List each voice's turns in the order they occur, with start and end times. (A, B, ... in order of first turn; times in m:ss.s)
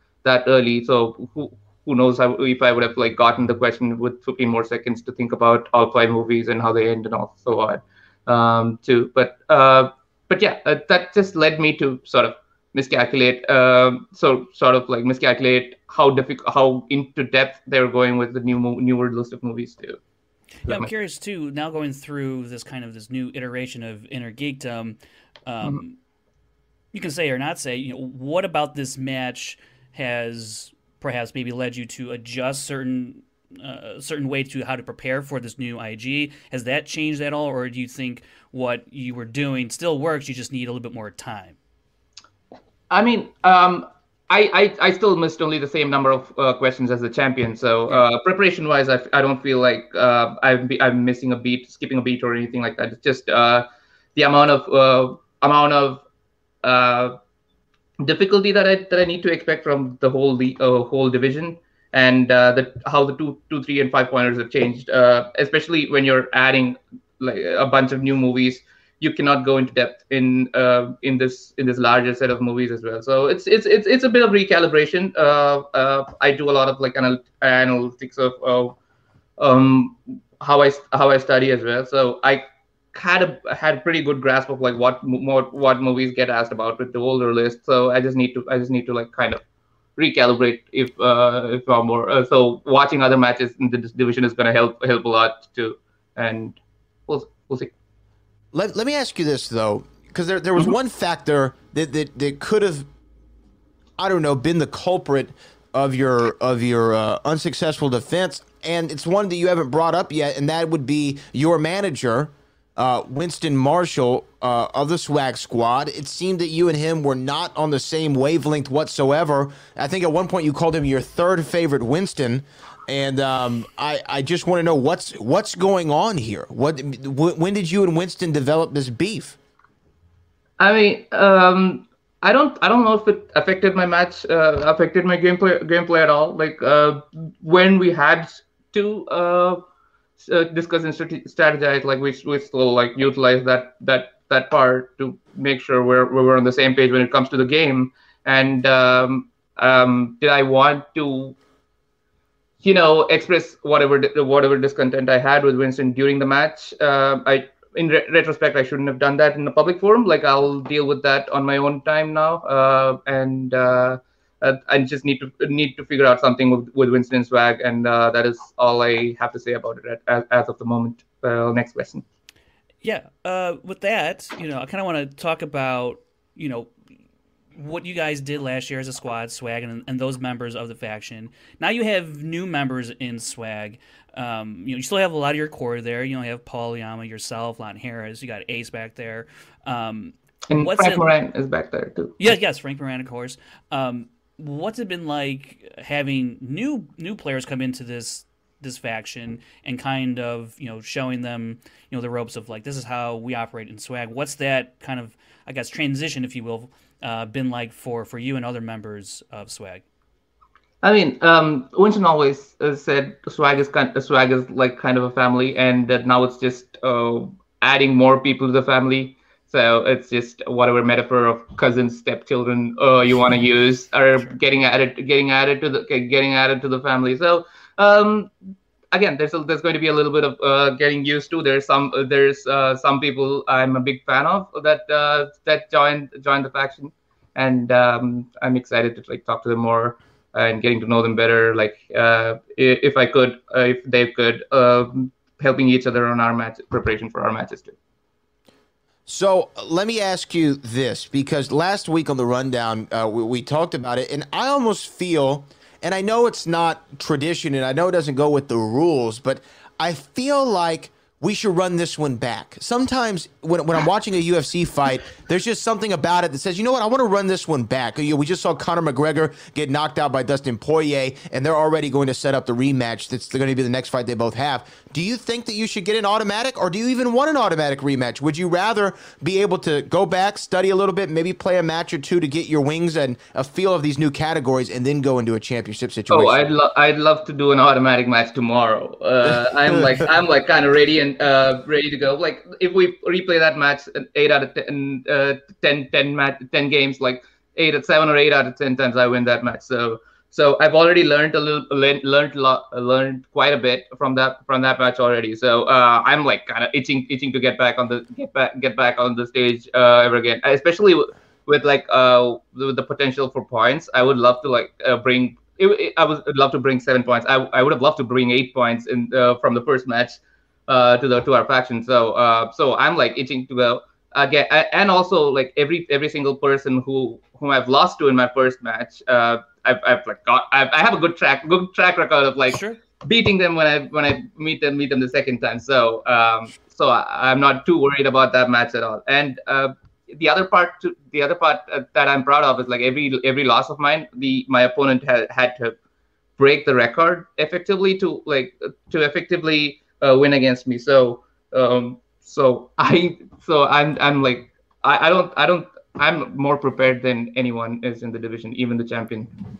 0:00.2-0:20.0 A
0:20.6-0:26.0 B
0:20.6-0:20.9 A
0:26.9-0:41.6 B
0:42.9-0:56.0 A
0:56.6-0:57.2 A
0:58.0-1:18.8 A
1:19.4-1:29.4 A
1:30.0-1:37.7 A
1:38.5-1:42.9 C
1:44.0-2:09.4 C
2:10.6-2:19.6 A
2:20.2-2:31.4 A
2:32.6-2:52.0 A
2:52.8-2:56.7 B
2:57.6-3:11.1 B
3:10.5-3:12.2 A
3:12.2-3:29.8 B
3:30.8-3:48.3 A
3:48.9-4:07.7 A
4:09.1-4:46.5 C
4:46.1-5:45.8 A
4:49.2-4:50.0 C
5:32.5-5:32.8 B
5:46.4-5:59.3 A